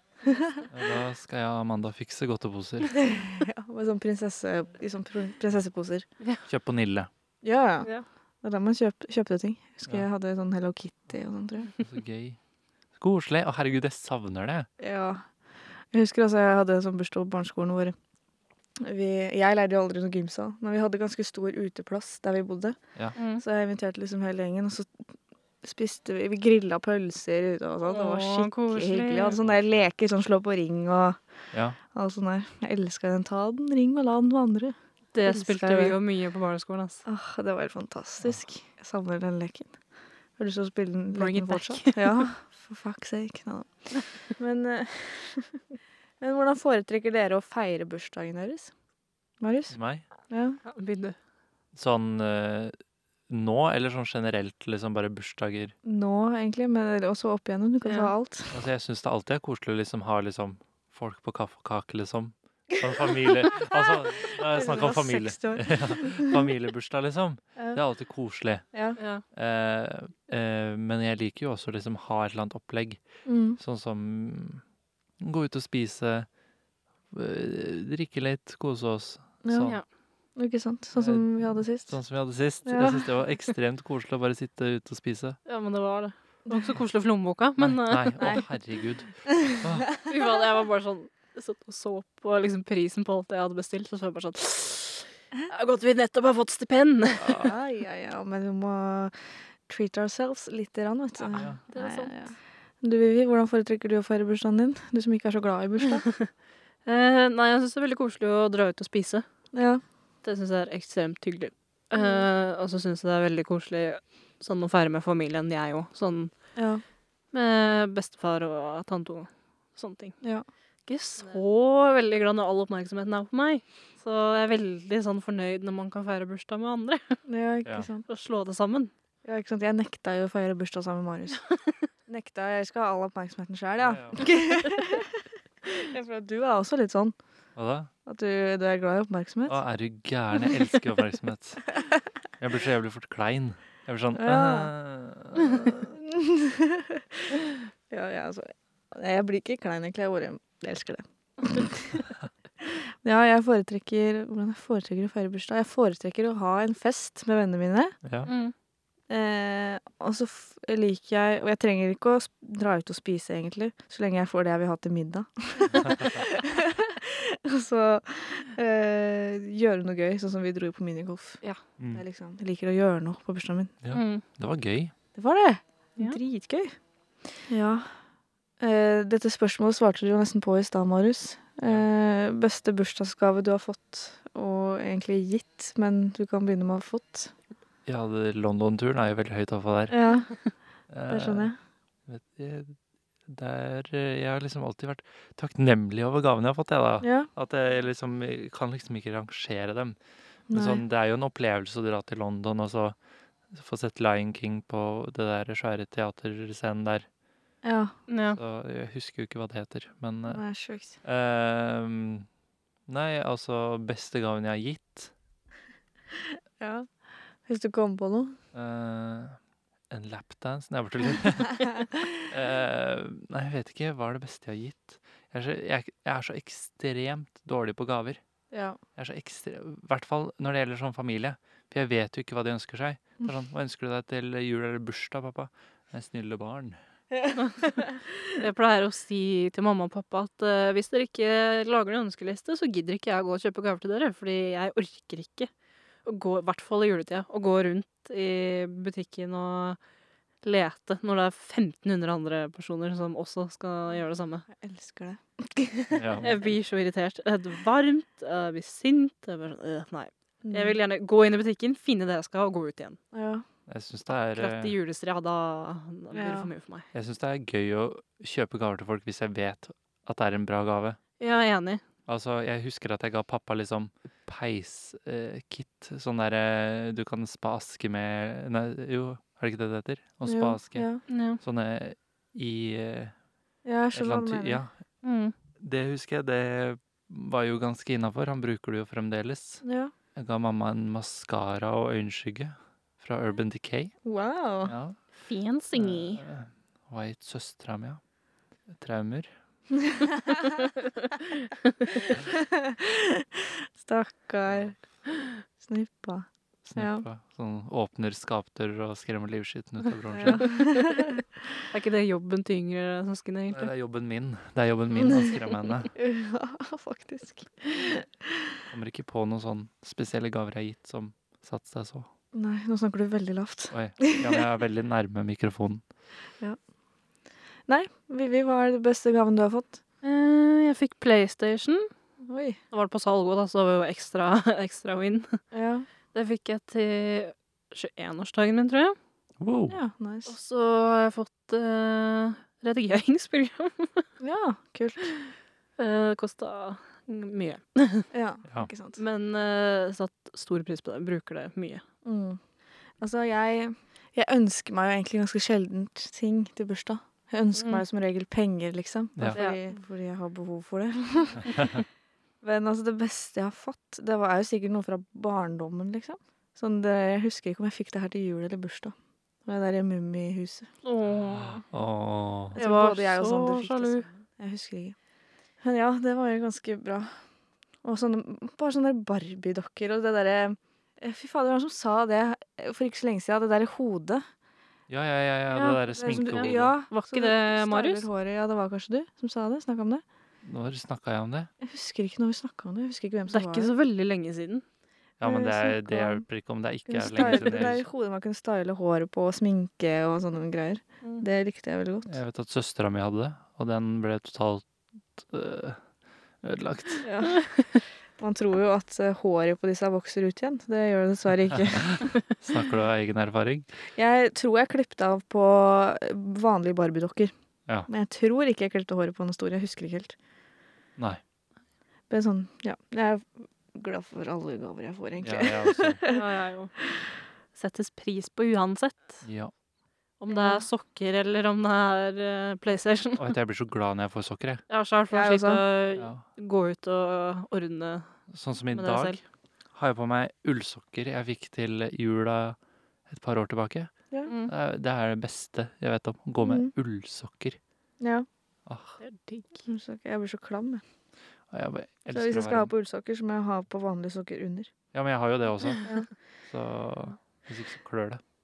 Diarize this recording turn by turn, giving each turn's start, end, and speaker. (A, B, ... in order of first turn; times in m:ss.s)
0:00.2-0:00.6 A
0:00.7-0:03.1 B
0:03.0-0:06.1 A
0:06.5-0:07.1 B
0:07.4-0:07.9 A
0:08.4-0:11.7 A
0:11.8-0:12.4 B
0:13.0-0:14.7 B
0:14.8-0:15.2 A
0:15.9-0:18.0 A
0:18.8-0:22.8 A
0:23.2-0:23.4 C
0:23.4-0:25.0 A
0:25.6-0:31.2 A
0:27.9-0:29.4 C
0:29.4-0:29.8 B
0:31.5-0:31.8 B
0:31.9-0:36.0 A
0:35.1-0:37.0 C
0:37.1-0:39.7 A
0:40.4-0:45.6 A
0:41.2-0:42.3 C
0:46.2-0:48.7 A
0:49.4-0:49.8 A
0:49.7-0:50.1 B
0:50.3-0:50.6 A
0:50.6-0:51.2 C
0:51.7-0:52.8 B
0:53.3-0:55.8 B
0:55.8-0:58.6 A
0:57.8-0:58.1 C
0:58.5-1:08.7 B
1:02.8-1:06.4 A
1:08.7-1:09.0 A
1:09.0-1:09.2 C
1:09.3-1:13.0 B
1:13.2-1:13.6 A
1:13.6-1:14.6 B
1:15.2-1:16.3 B
1:17.1-1:19.8 B
1:19.4-1:19.8 A
1:20.4-1:21.9 A
1:21.0-1:25.4 B
1:22.6-1:23.0 A
1:25.5-1:28.4 C
1:26.5-1:26.8 A
1:27.6-1:29.9 B
1:29.3-1:30.1 A
1:30.0-1:37.5 C
1:37.2-1:46.0 A
1:41.3-1:41.6 B
1:41.4-1:42.3 C
1:46.9-1:49.2 C
1:49.5-1:49.8 A
1:50.2-1:56.3 C
1:51.9-1:52.3 A
1:56.6-1:56.8 A
1:57.3-2:00.2 C
2:00.9-2:07.2 C
2:07.3-2:08.1 A
2:08.1-2:08.9 C
2:09.2-2:11.4 A
2:12.1-2:17.2 A
2:13.8-2:14.3 B
2:17.6-2:17.9 B
2:18.1-2:19.6 A
2:19.5-2:21.8 B
2:22.4-2:26.0 B
2:24.2-2:24.7 A
2:25.7-2:38.0 A
2:38.0-2:38.3 B
2:38.2-2:38.5 C
2:39.1-2:51.4 A
2:45.8-2:46.1 B
2:51.8-2:52.0 B
2:51.9-2:53.7 A
2:53.8-2:54.9 B
2:53.9-2:54.2 C
2:55.2-2:56.8 A
2:57.5-2:57.9 A
2:58.6-3:07.3 A
3:07.9-3:10.0 B
3:09.9-3:10.3 A
3:10.9-3:11.5 B
3:11.1-3:11.6 A
3:12.1-3:20.0 B
3:17.0-3:17.3 A
3:20.5-3:20.8 A
3:20.5-3:23.0 B
3:23.5-3:27.1 B
3:27.6-3:27.9 A
3:28.1-3:28.4 C
3:28.3-3:30.4 B
3:30.3-3:31.0 A
3:31.0-3:32.3 B
3:32.9-3:35.1 B
3:36.3-3:36.9 A
3:37.4-3:38.4 A
3:38.5-3:39.4 B
3:39.9-3:48.2 B
3:41.8-3:42.1 A
3:48.5-3:48.8 A
3:49.0-3:56.8 B
3:57.1-3:58.4 A
3:57.4-3:57.7 C
3:58.3-4:05.5 C
4:06.0-4:09.8 C
4:10.4-4:14.5 C
4:14.5-4:16.3 A
4:15.9-4:16.3 B
4:16.2-4:23.0 C
4:20.4-4:20.8 A
4:23.1-4:23.4 A
4:23.7-4:24.8 B
4:24.1-4:26.9 C
4:26.1-4:26.5 A
4:26.9-4:31.0 B
4:31.2-4:31.8 C
4:32.1-4:40.9 B
4:40.2-4:41.0 A
4:41.1-4:41.4 C
4:41.4-4:43.2 B
4:43.6-4:44.6 A
4:43.9-4:44.7 B
4:45.0-4:45.3 C
4:45.6-4:49.6 B
4:49.6-4:49.9 A
4:50.2-4:53.9 B
4:54.0-4:54.8 A
4:54.6-4:55.0 B
4:55.3-4:56.2 C
4:55.7-4:58.0 B
4:58.7-4:59.3 B
4:59.8-5:00.7 A
5:01.6-5:01.9 C
5:01.9-5:04.8 A
5:04.5-5:04.8 B
5:05.6-5:07.0 A
5:06.6-5:10.6 B
5:10.1-5:11.2 A
5:10.4-5:11.0 C
5:11.6-5:13.7 C
5:13.5-5:15.9 B
5:15.9-5:18.6 A
5:18.7-5:22.1 B
5:22.3-5:24.4 A
5:23.7-5:25.8 B
5:27.7-5:29.8 A
5:30.0-5:31.9 C
5:32.2-5:32.6 A
5:32.7-5:35.4 C
5:35.5-5:35.9 A
5:36.1-5:39.0 C
5:39.4-5:39.8 B
5:39.7-5:40.3 A
5:40.3-5:44.1 C
5:44.2-5:45.1 A
5:45.8-5:48.1 C
5:48.1-5:49.0 A
5:49.0-5:51.8 C
5:52.0-5:52.4 A
5:53.0-6:01.7 A
5:57.6-5:57.8 C
5:59.3-5:59.6 C
6:02.4-6:09.0 A
6:09.5-6:10.7 A
6:10.8-6:11.6 C
6:11.3-6:12.6 B
6:12.5-6:15.0 A
6:12.6-6:14.1 C
6:15.6-6:17.1 A
6:17.8-6:24.2 A
6:24.9-6:26.7 B
6:25.5-6:28.1 C
6:26.0-6:30.0 A
6:30.4-6:31.5 B
6:31.6-6:33.7 A
6:33.3-6:34.6 C
6:35.2-6:37.8 B
6:35.2-6:36.2 A
6:36.9-6:42.2 A
6:37.2-6:37.6 C
6:42.1-6:45.8 B
6:46.4-6:47.0 B
6:47.0-6:47.6 A
6:48.2-6:52.0 A
6:51.7-6:53.7 B
6:54.0-6:57.3 A
6:57.9-7:00.2 A
7:01.0-7:01.2 B
7:02.1-7:06.2 A
7:05.2-7:06.0 B
7:06.1-7:06.7 C
7:07.6-7:09.2 C
7:09.2-7:09.5 B
7:10.2-7:13.3 C
7:10.3-7:10.7 A
7:13.2-7:14.6 B
7:14.7-7:18.1 C
7:15.1-7:15.6 A
7:16.0-7:16.2 B
7:18.3-7:19.2 B
7:18.7-7:19.2 C
7:19.7-7:23.9 B
7:24.3-7:24.5 C
7:24.4-7:27.6 B
7:26.4-7:26.7 A
7:28.0-7:28.3 A
7:28.7-7:29.0 B
7:29.0-7:29.6 C
7:29.7-7:30.8 A
7:31.5-7:32.7 B
7:32.1-7:34.7 A
7:34.9-7:35.9 B
7:36.5-7:38.2 B